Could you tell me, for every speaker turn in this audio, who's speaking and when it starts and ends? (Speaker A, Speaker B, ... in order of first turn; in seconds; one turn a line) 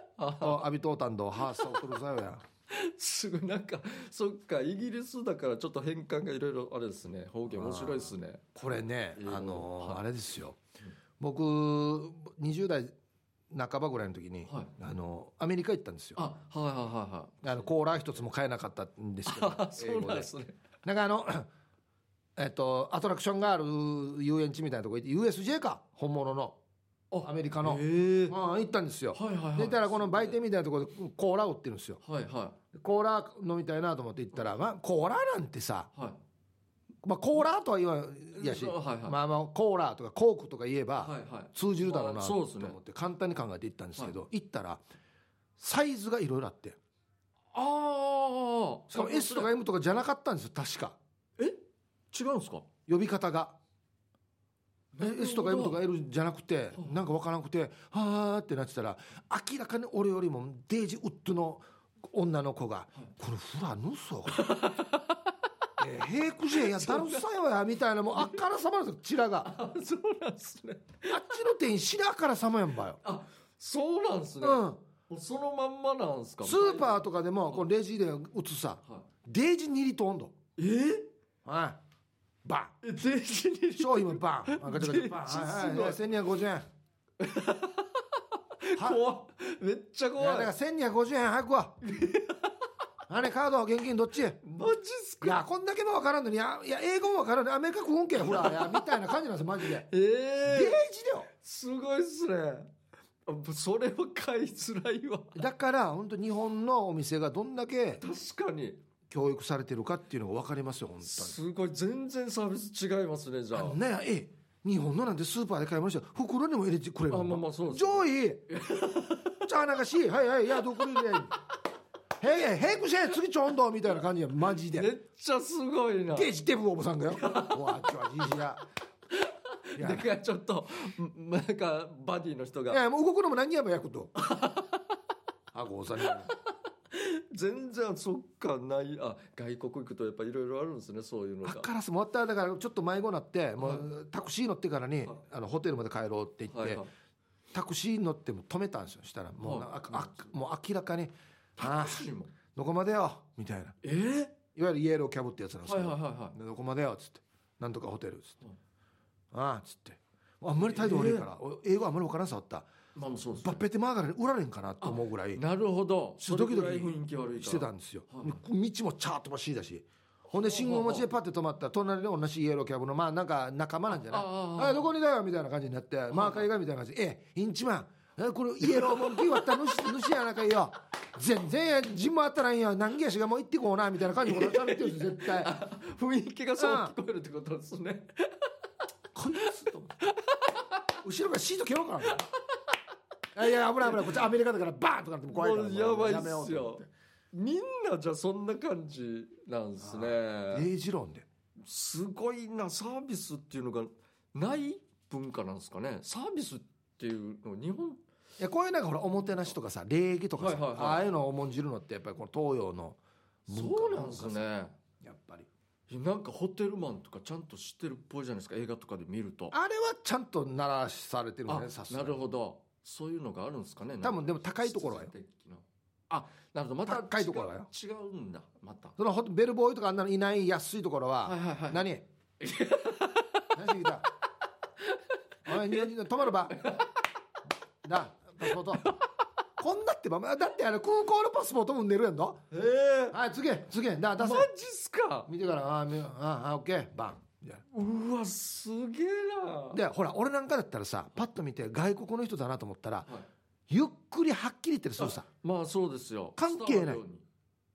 Speaker A: 0.2-0.6
Speaker B: 0.4-2.4
Speaker A: 2.7-8.4
Speaker B: 7.5-10.6
Speaker A: 9.2-10.0
Speaker B: 11.2-12.9
Speaker B: 13.5-16.2
Speaker A: 14.5-14.7
Speaker A: 16.2-17.7
Speaker B: 17.4-20.3
Speaker A: 19.3-20.6
Speaker B: 20.8-21.5
Speaker B: 22.4-26.6
Speaker A: 27.1-28.4
Speaker B: 27.2-32.0
Speaker A: 29.1-30.4
Speaker A: 32.0-32.6
Speaker B: 32.7-35.9
Speaker A: 35.9-36.2
Speaker B: 37.0-44.8
Speaker A: 38.4-39.2
Speaker A: 41.0-42.8
Speaker B: 45.6-46.8
Speaker A: 47.5-49.5
Speaker B: 48.9-51.0
Speaker A: 52.1-52.7
Speaker B: 52.9-53.6
Speaker A: 55.0-55.8
Speaker B: 55.0-64.5
Speaker A: 64.3-65.3
Speaker B: 65.8-69.5
Speaker A: 66.6-67.2
Speaker A: 69.4-71.4
Speaker B: 71.1-73.0
Speaker A: 73.0-77.7
Speaker B: 74.4-74.8
Speaker B: 76.4-80.3
Speaker A: 80.6-81.1
Speaker B: 81.5-81.8
Speaker B: 82.5-82.8
Speaker A: 82.8-86.0
Speaker B: 83.8-86.7
Speaker A: 87.2-90.5
Speaker B: 90.2-91.8
Speaker A: 91.8-92.7
Speaker B: 93.1-94.4
Speaker A: 94.4-95.4
Speaker B: 95.2-99.9
Speaker A: 98.2-99.0
Speaker A: 99.8-102.7
Speaker B: 100.5-101.3
Speaker A: 103.3-105.4
Speaker B: 105.3-108.0
Speaker A: 108.0-108.8
Speaker B: 109.1-111.4
Speaker A: 111.0-113.8
Speaker B: 113.5-118.5
Speaker A: 117.1-119.5
Speaker B: 119.4-121.4
Speaker A: 120.8-121.2
Speaker B: 122.2-124.9
Speaker A: 124.7-126.3
Speaker B: 126.1-128.6
Speaker A: 127.1-127.9
Speaker A: 129.1-132.8
Speaker B: 129.8-130.1
Speaker B: 132.7-134.1
Speaker A: 134.2-134.9
Speaker B: 135.5-136.3
Speaker A: 136.0-141.7
Speaker B: 141.4-146.8
Speaker A: 143.6-143.9
Speaker A: 146.5-146.9
Speaker B: 147.5-153.8
Speaker A: 149.4-150.3
Speaker A: 151.6-152.3
Speaker A: 153.8-154.4
Speaker B: 154.6-158.4
Speaker A: 155.7-156.4
Speaker B: 159.3-162.7
Speaker A: 160.6-161.3
Speaker A: 162.9-163.6
Speaker B: 163.4-165.4
Speaker A: 164.8-168.4
Speaker B: 166.2-185.6
Speaker A: 170.4-171.1
Speaker A: 173.9-174.9
Speaker A: 176.1-176.4
Speaker A: 178.6-179.8
Speaker A: 184.2-188.5
Speaker B: 186.6-186.9
Speaker B: 189.1-189.9
Speaker A: 189.4-191.0
Speaker B: 191.0-192.3
Speaker A: 192.1-192.8
Speaker B: 193.3-196.9
Speaker A: 195.3-200.7
Speaker B: 199.8-201.3
Speaker A: 201.6-208.0
Speaker B: 208.4-214.4
Speaker A: 210.4-211.1
Speaker A: 213.5-214.8
Speaker B: 215.0-215.5
Speaker A: 215.9-219.6
Speaker B: 219.5-222.2
Speaker A: 221.5-229.0
Speaker B: 224.0-225.1
Speaker B: 226.9-227.7
Speaker B: 229.0-232.0
Speaker A: 231.2-231.9
Speaker A: 232.4-233.6
Speaker B: 233.5-234.1
Speaker A: 234.8-236.9
Speaker B: 235.5-236.6
Speaker B: 237.8-238.9
Speaker A: 238.8-239.1
Speaker B: 239.6-242.4
Speaker A: 242.5-243.2
Speaker B: 243.1-244.5
Speaker A: 244.2-245.3
Speaker B: 245.3-247.6
Speaker A: 247.7-249.8
Speaker B: 249.7-253.1
Speaker B: 253.7-255.2
Speaker A: 255.0-257.2
Speaker B: 256.4-257.0